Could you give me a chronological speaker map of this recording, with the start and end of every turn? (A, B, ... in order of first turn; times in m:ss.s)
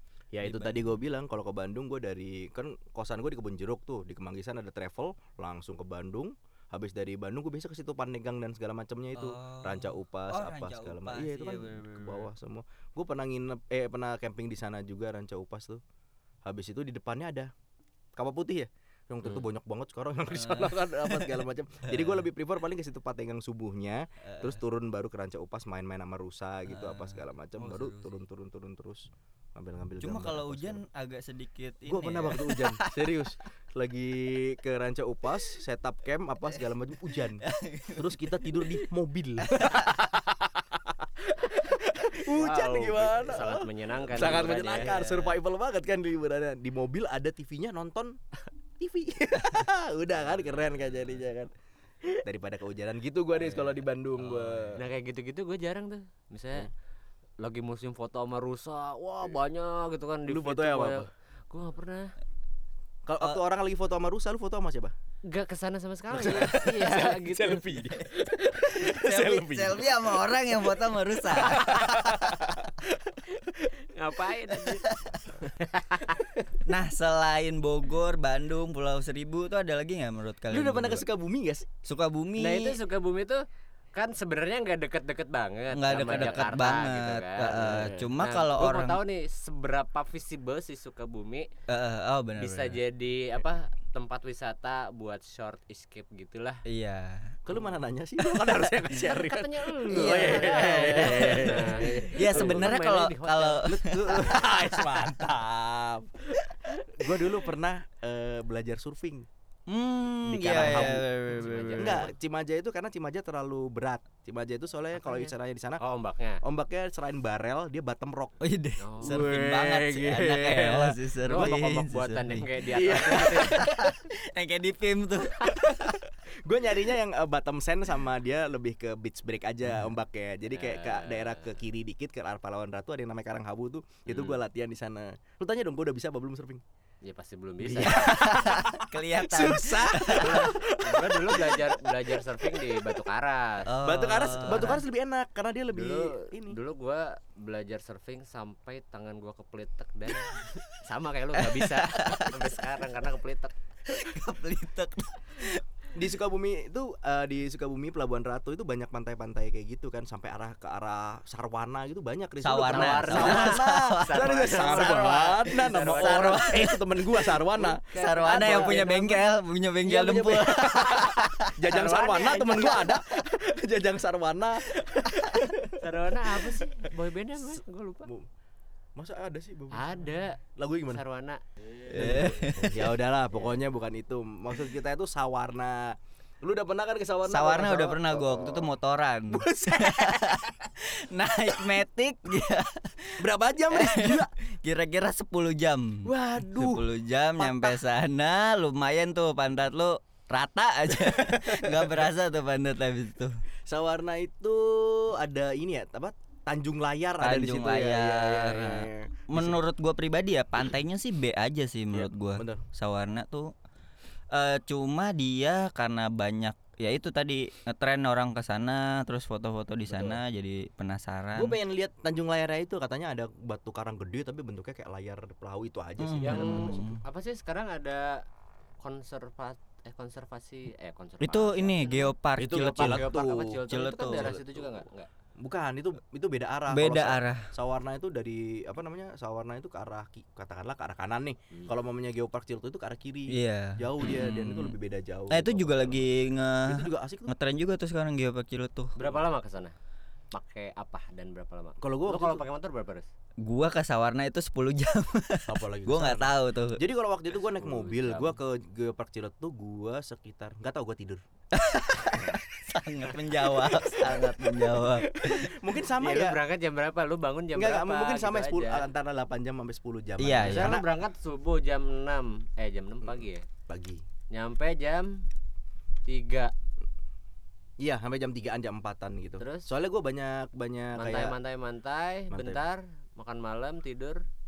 0:00.3-0:15.8 A
0:00.4-0:00.9 B
0:09.1-0:12.3 B
0:16.4-0:17.5 A
0:18.2-0:30.8 A
0:20.3-0:22.2 B
0:24.2-0:24.6 B
0:26.6-0:28.2 B
0:30.0-0:33.2 B
0:31.8-0:48.2 A
0:37.4-0:38.8 B
0:39.4-0:40.0 B
0:42.2-0:45.0 C
0:44.1-0:45.4 B
0:48.8-0:51.5 A
0:52.1-0:54.8 A
0:53.4-0:54.8 B
0:54.7-0:56.7 C
0:57.4-1:02.1 C
1:00.3-1:01.1 A
1:03.0-1:04.9 A
1:05.3-1:07.6 C
1:06.1-1:10.0 A
1:08.6-1:12.5 B
1:11.3-1:13.7 A
1:13.3-1:16.3 C
1:14.9-1:15.2 B
1:16.6-1:21.0 B
1:20.5-1:21.7 A
1:21.8-1:22.8 B
1:22.4-1:31.5 C
1:25.7-1:29.0 B
1:31.7-1:32.8 B
1:32.4-1:36.6 C
1:36.6-1:37.4 B
1:37.4-1:42.7 A
1:38.9-1:44.4 C
1:39.9-1:44.8 B
1:43.6-1:49.2 A
1:49.7-1:52.1 B
1:50.3-1:51.0 A
1:50.4-1:52.1 C
1:51.8-1:55.8 A
1:55.0-1:56.4 C
1:56.4-1:58.4 A
1:58.4-2:06.0 B
1:58.8-1:59.4 C
1:59.0-2:01.6 A
2:01.2-2:03.8 C
2:02.7-2:03.7 A
2:05.4-2:16.6 A
2:10.5-2:11.6 C
2:14.1-2:14.4 C
2:17.0-2:18.3 C
2:17.6-2:21.7 A
2:17.8-2:20.5 B
2:20.1-2:23.8 C
2:23.6-2:24.8 B
2:23.8-2:26.6 A
2:24.3-2:24.8 C
2:25.7-2:33.5 C
2:31.4-2:32.6 B
2:33.8-2:35.6 B
2:35.9-2:49.1 A
2:42.4-2:45.2 B
2:42.6-2:46.6 C
2:45.9-2:46.8 B
2:47.6-2:49.2 C
2:47.9-2:51.5 B
2:49.8-2:56.9 A
2:51.7-2:53.0 C
2:55.8-2:58.1 C
2:59.0-3:01.0 A
2:59.7-3:01.4 C
3:01.9-3:08.7 A
3:01.9-3:03.0 B
3:02.0-3:02.3 C
3:07.2-3:23.4 B
3:09.3-3:10.5 A
3:13.2-3:14.3 A
3:16.0-3:17.8 A
3:21.0-3:22.0 A
3:23.7-3:29.6 A
3:27.2-3:33.5 B
3:31.9-3:32.6 A
3:34.3-3:41.6 B
3:39.9-3:40.2 A
3:41.3-3:46.9 A
3:46.0-3:47.0 B
3:46.2-3:48.2 C
3:48.8-3:55.1 C
3:51.2-3:54.4 B
3:52.4-3:53.6 A
3:54.1-3:54.8 A
3:55.4-4:06.0 A
3:56.7-3:57.5 B
4:03.3-4:04.8 B
4:05.3-4:08.9 B
4:06.6-4:07.3 A
4:09.0-4:09.7 C
4:10.3-4:13.1 C
4:11.8-4:12.4 A
4:13.4-4:16.8 B
4:15.5-4:21.2 A
4:17.3-4:18.4 C
4:21.5-4:25.6 B
4:23.7-4:26.4 A
4:26.0-4:28.9 C
4:27.5-4:30.8 A
4:30.2-4:30.8 B
4:30.4-4:33.5 C
4:33.0-4:34.0 A
4:34.3-4:35.3 C
4:36.0-4:36.5 C
4:37.8-4:41.4 A
4:39.4-4:39.7 C
4:40.9-4:44.2 C
4:42.3-4:42.6 A